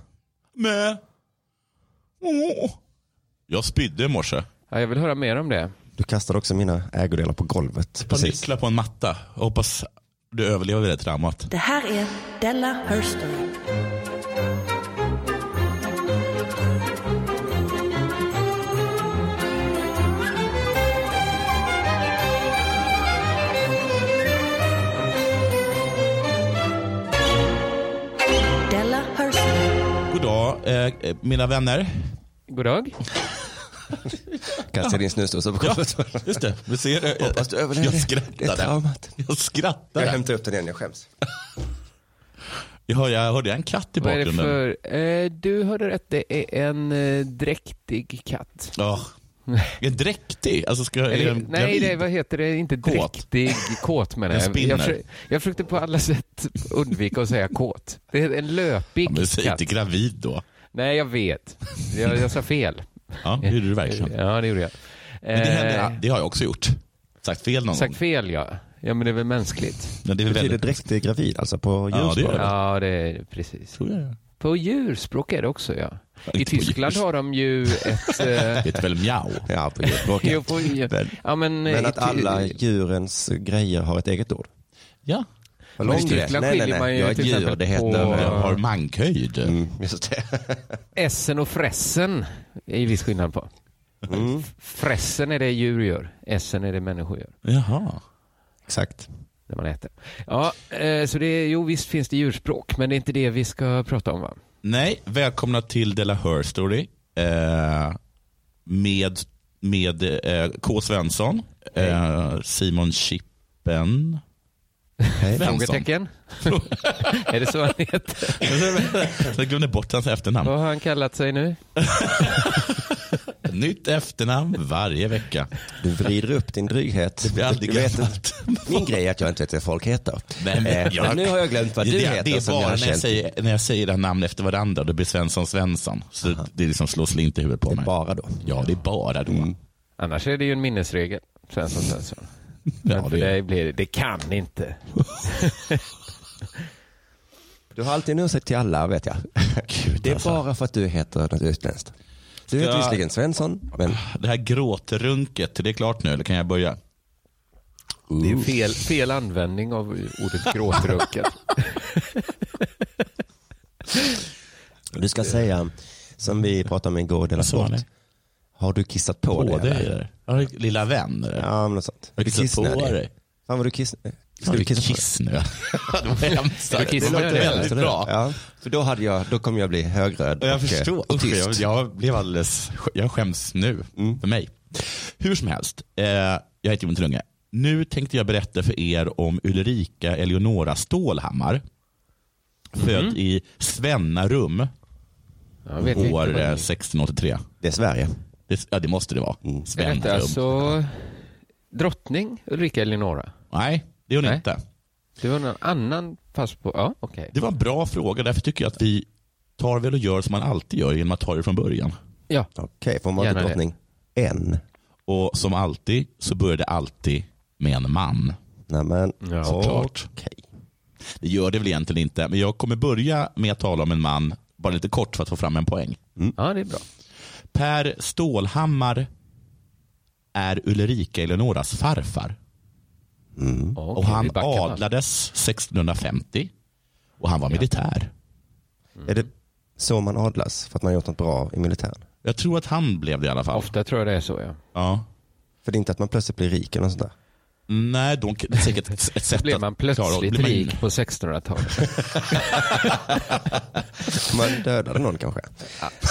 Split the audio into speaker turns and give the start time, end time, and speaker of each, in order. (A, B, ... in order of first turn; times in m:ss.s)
0:00.6-0:01.0 A
0:02.2-0:02.8 A
0:03.5-0:04.4 A
0:04.7-0:05.7 B
0:06.0-0:08.4 C
0:08.0-0:11.5 A
0:11.5-0:13.5 D
0:28.7-0:29.8 D
0:30.1-0:32.1 A
0:32.5-0:33.0 B
0:34.5-0:36.4 C
0:35.6-0:40.2 A
0:37.2-0:39.2 C
0:40.0-0:41.1 C
0:42.9-0:44.6 A
0:44.0-0:48.7 B
0:48.7-0:49.1 A
0:49.8-0:52.0 A
0:51.1-0:59.6 B
0:52.8-0:55.0 A
0:59.0-1:00.4 A
1:00.7-1:06.0 B
1:03.2-1:04.1 A
1:05.3-1:08.0 A
1:07.7-1:10.0 B
1:10.0-1:10.7 A
1:10.3-1:12.5 C
1:11.9-1:12.5 A
1:12.3-1:13.8 B
1:13.8-1:14.2 A
1:14.4-1:18.6 B
1:16.3-1:17.0 A
1:17.8-1:20.0 A
1:19.5-1:24.5 C
1:20.1-1:22.5 B
1:25.8-1:28.6 C
1:25.8-1:28.6 B
1:25.8-1:26.2 A
1:28.0-1:29.5 A
1:29.4-1:30.8 C
1:31.0-1:33.5 B
1:34.1-1:34.5 C
1:34.4-1:37.3 B
1:37.4-1:38.0 A
1:38.7-1:39.1 C
1:39.5-1:44.4 B
1:44.6-1:48.0 A
1:48.6-1:54.2 A
1:55.2-1:55.5 C
1:55.3-1:55.9 A
1:55.3-1:58.7 B
1:56.4-1:57.2 A
1:58.4-2:00.6 A
2:00.4-2:01.6 B
2:01.8-2:02.6 A
2:03.4-2:05.5 A
2:05.8-2:13.2 C
2:07.2-2:08.9 A
2:10.4-2:17.9 A
2:17.7-2:18.4 C
2:18.4-2:19.5 A
2:18.4-2:18.8 B
2:19.3-2:19.5 C
2:20.0-2:22.3 B
2:22.8-2:23.3 A
2:22.8-2:25.8 B
2:27.7-2:31.9 C
2:29.6-2:30.4 A
2:32.5-2:34.0 C
2:32.5-2:33.0 A
2:33.9-2:36.8 A
2:38.1-2:38.4 C
2:38.2-2:42.2 B
2:44.9-2:47.8 C
2:47.4-2:47.8 A
2:48.6-2:50.0 C
2:49.3-2:51.5 A
2:51.4-2:55.0 C
2:52.2-2:53.1 A
2:54.4-2:58.2 A
2:56.7-2:57.7 B
2:56.7-3:01.6 C
3:00.4-3:11.6 A
3:12.8-3:14.7 A
3:12.8-3:13.2 B
3:15.6-3:16.7 B
3:15.8-3:16.1 C
3:15.9-3:17.5 A
3:17.6-3:18.2 C
3:18.5-3:20.7 A
3:19.8-3:23.3 B
3:23.5-3:24.6 A
3:25.2-3:27.3 B
3:27.3-3:29.0 A
3:29.6-3:31.9 A
3:32.6-3:34.6 C
3:33.2-3:33.6 B
3:35.1-3:38.4 A
3:38.7-3:40.5 C
3:39.2-3:39.6 B
3:39.4-3:40.1 A
3:41.2-3:46.0 A
3:46.4-3:46.8 B
3:47.5-3:49.1 A
3:50.3-3:52.4 A
3:53.4-3:53.8 C
3:53.8-3:54.8 B
3:53.9-3:56.5 A
3:57.2-3:58.1 A
3:59.0-4:02.0 C
4:02.2-4:03.7 A
4:03.5-4:04.6 B
4:04.7-4:05.0 A
4:05.6-4:07.1 C
4:07.7-4:10.8 A
4:09.3-4:11.9 B
4:12.3-4:12.6 A
4:14.1-4:15.7 C